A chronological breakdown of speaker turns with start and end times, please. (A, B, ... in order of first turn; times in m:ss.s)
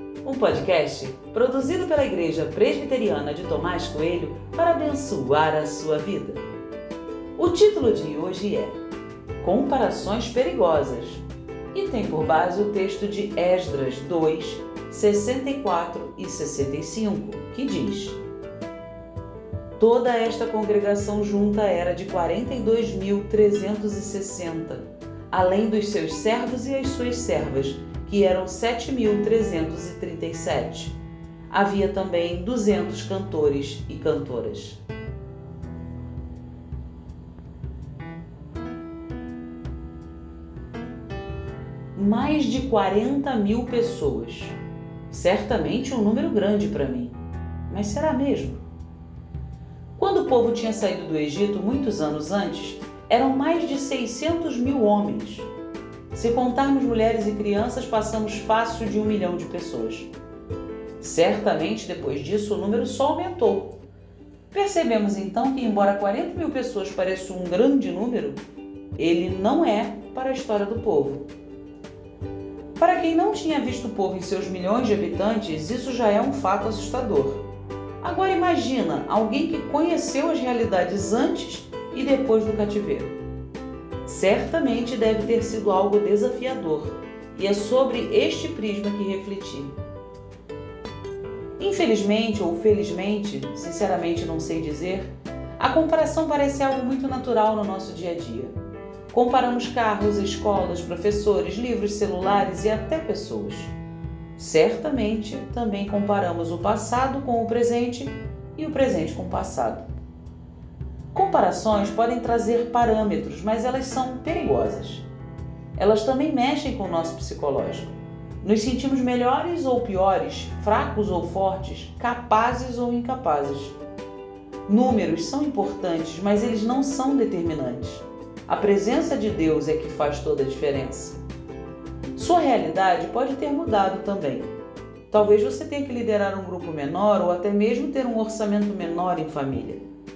0:00.2-0:06.4 A
0:07.4-0:08.8 A
0:09.4-0:18.2 A
0:19.8-0:30.9 A
0:31.5-0:34.8 A
0:41.9-0:44.6 A
0:45.1-0:47.1 A
0:47.7-0:48.6 A
0:50.0-0:55.5 A
0:56.1-1:00.1 A
1:01.0-1:03.8 A
1:04.5-1:08.4 A
1:09.0-1:11.3 A
1:12.8-1:17.4 A
1:18.0-1:23.2 A
1:24.0-1:29.7 A
1:31.6-1:38.5 A
1:39.1-1:43.7 A
1:44.4-1:49.8 A
1:51.1-1:55.0 A
1:55.8-2:03.7 A
2:04.6-2:11.2 A
2:12.1-2:14.5 A
2:15.1-2:19.8 A